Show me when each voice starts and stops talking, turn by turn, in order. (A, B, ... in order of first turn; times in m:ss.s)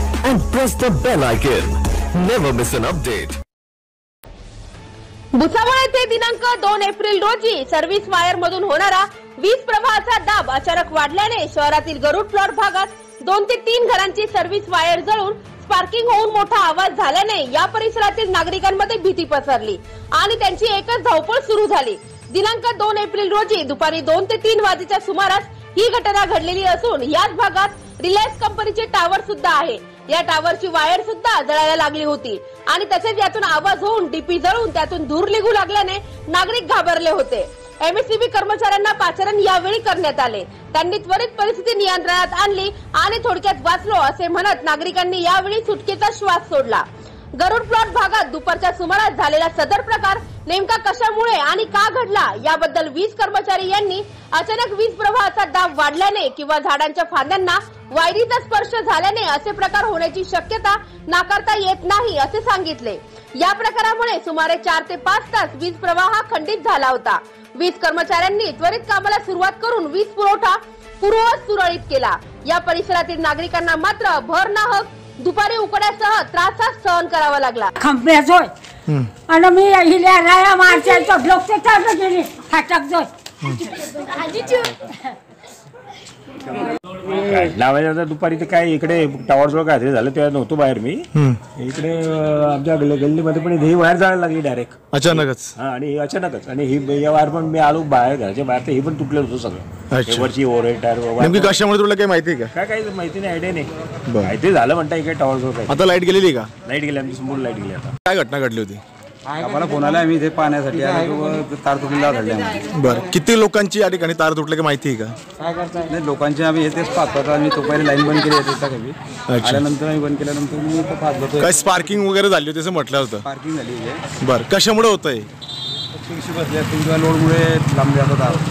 0:00.2-0:03.4 A
0:05.4-0:46.8 B
0:47.4-1:17.7 B
1:17.8-1:18.5 C
1:19.3-1:23.1 C
1:24.3-1:24.7 C
1:27.1-1:41.6 D
1:31.1-1:31.4 E
1:34.9-1:35.6 E
1:39.9-1:40.3 E
1:41.2-1:42.5 E
1:42.5-1:43.7 D
1:44.1-1:44.3 E
1:44.2-1:45.8 D
1:45.7-1:46.5 E
1:46.6-1:47.9 D
1:48.0-1:48.8 E
1:49.3-1:52.6 F
1:52.7-1:55.1 E
1:55.8-2:01.7 F
1:59.3-1:59.6 E
2:01.4-2:03.2 E
2:03.2-2:04.0 F
2:04.2-2:05.3 E
2:06.1-2:08.4 F